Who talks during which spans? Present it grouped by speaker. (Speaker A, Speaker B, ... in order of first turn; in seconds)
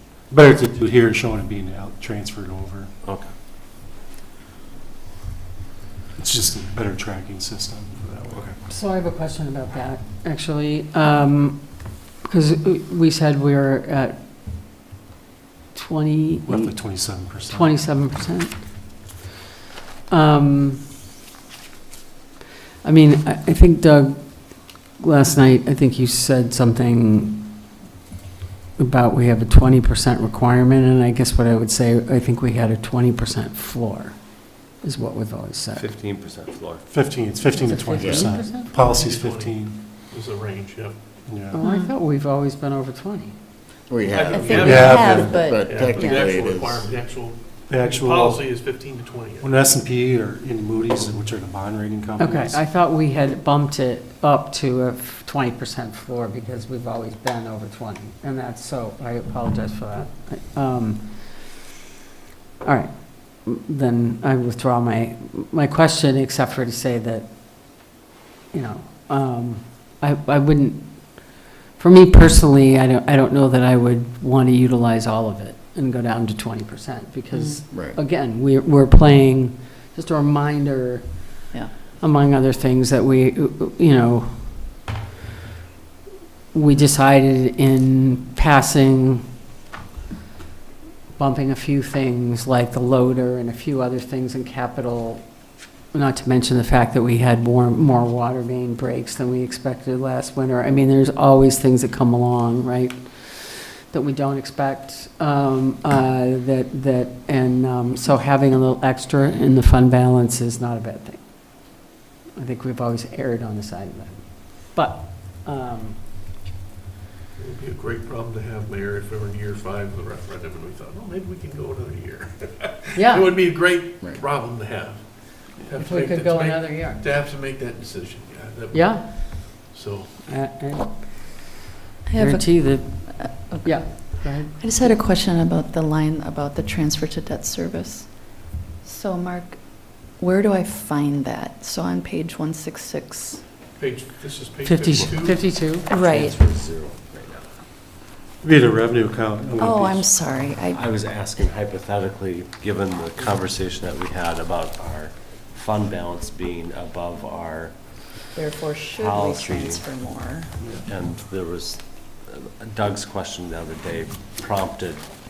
Speaker A: 0.3-2.9, 6.2-8.6, 16.5-17.7, 36.9-39.8, 41.3-41.6, 44.6-45.3, 47.7-48.4, 49.4-52.6, 148.4-150.1
Speaker B: 3.0-3.3, 35.8-36.9, 145.9-147.5, 150.7-157.8, 158.9-159.9, 160.8-165.1
Speaker C: 8.7-14.2, 15.7-19.0, 20.1-20.8, 22.8-27.4, 28.8-35.9, 37.6-38.8, 41.5-43.4, 46.0-46.3, 52.2-61.6, 62.6-68.0, 68.5-84.8, 86.5-89.2, 91.2-116.0, 123.0-123.4, 125.7-127.0, 128.7-129.6, 130.2-131.5, 132.1-134.5, 144.6-145.9
Speaker D: 38.0-38.3, 43.9-46.9, 77.7-78.0
Speaker E: 38.7-41.0, 44.1-49.8, 117.4-130.1, 143.8-145.6
Speaker F: 41.6-41.9, 44.3-45.6, 77.3-77.6, 132.1-143.4, 145.9-146.4, 149.6-150.8, 158.3-160.6